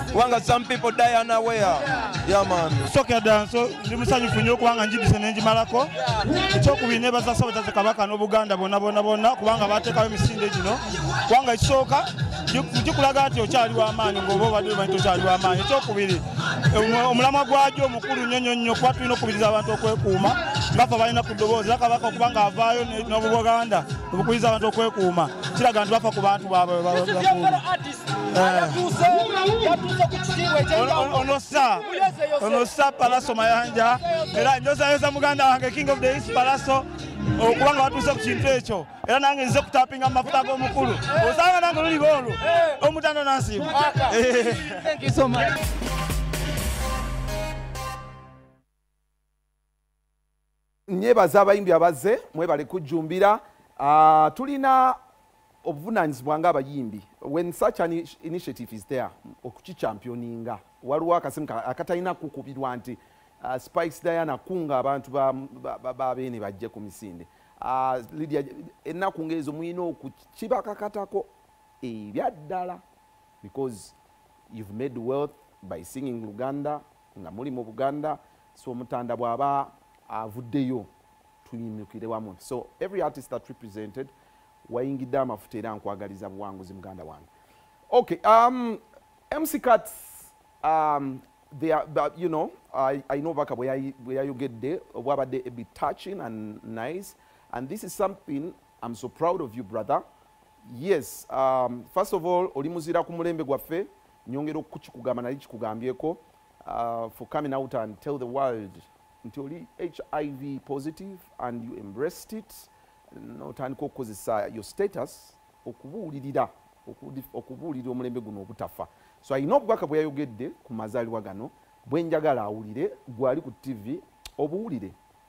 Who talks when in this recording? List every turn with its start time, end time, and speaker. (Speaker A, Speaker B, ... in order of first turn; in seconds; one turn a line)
Speaker A: 0.1-2.9
Speaker B: 2.9-27.6
Speaker C: 26.9-32.6
Speaker B: 28.3-28.8
Speaker B: 30.7-45.1
Speaker C: 43.8-44.1
Speaker C: 45.0-45.5
Speaker D: 50.9-55.0
Speaker D: 55.6-71.3
Speaker D: 71.8-72.8
Speaker D: 73.4-73.9
Speaker D: 74.5-80.9
Speaker D: 81.4-84.1
Speaker D: 84.7-87.3
Speaker D: 87.9-100.0
Speaker D: 100.7-125.0